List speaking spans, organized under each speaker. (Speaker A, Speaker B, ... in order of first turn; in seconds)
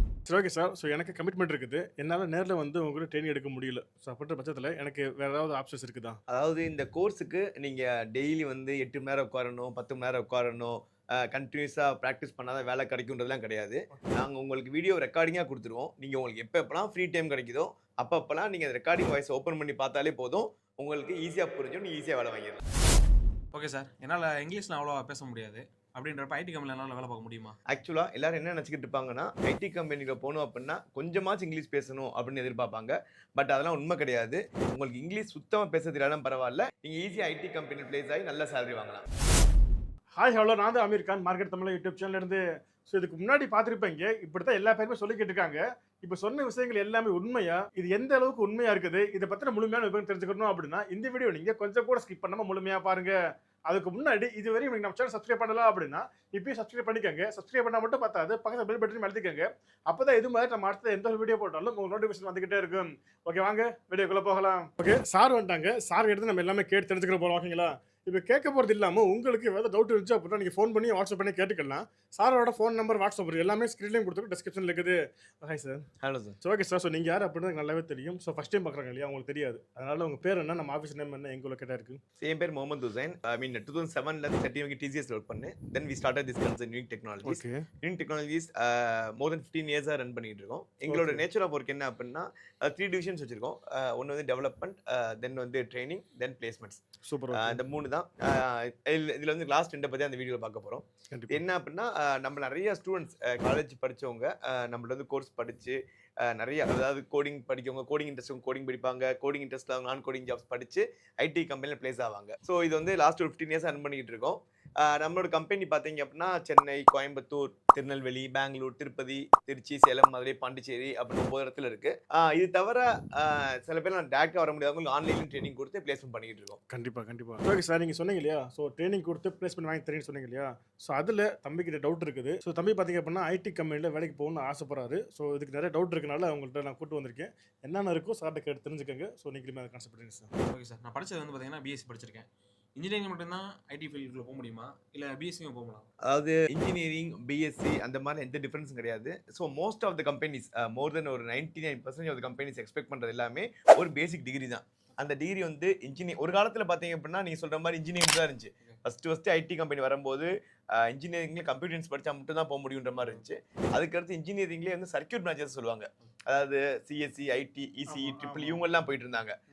Speaker A: 0.3-6.2, 40.2-53.1, 53.7-75.8, 76.4-82.0, 87.2-87.6, 90.9-91.2, 97.1-97.6, 101.1-101.4, 126.7-140.3, 167.9-168.7
Speaker B: 6.3-22.6, 27.7-39.0, 76.0-76.4, 82.2-96.8, 97.3-126.6, 146.0-169.4
Speaker C: 23.5-27.6, 140.4-145.9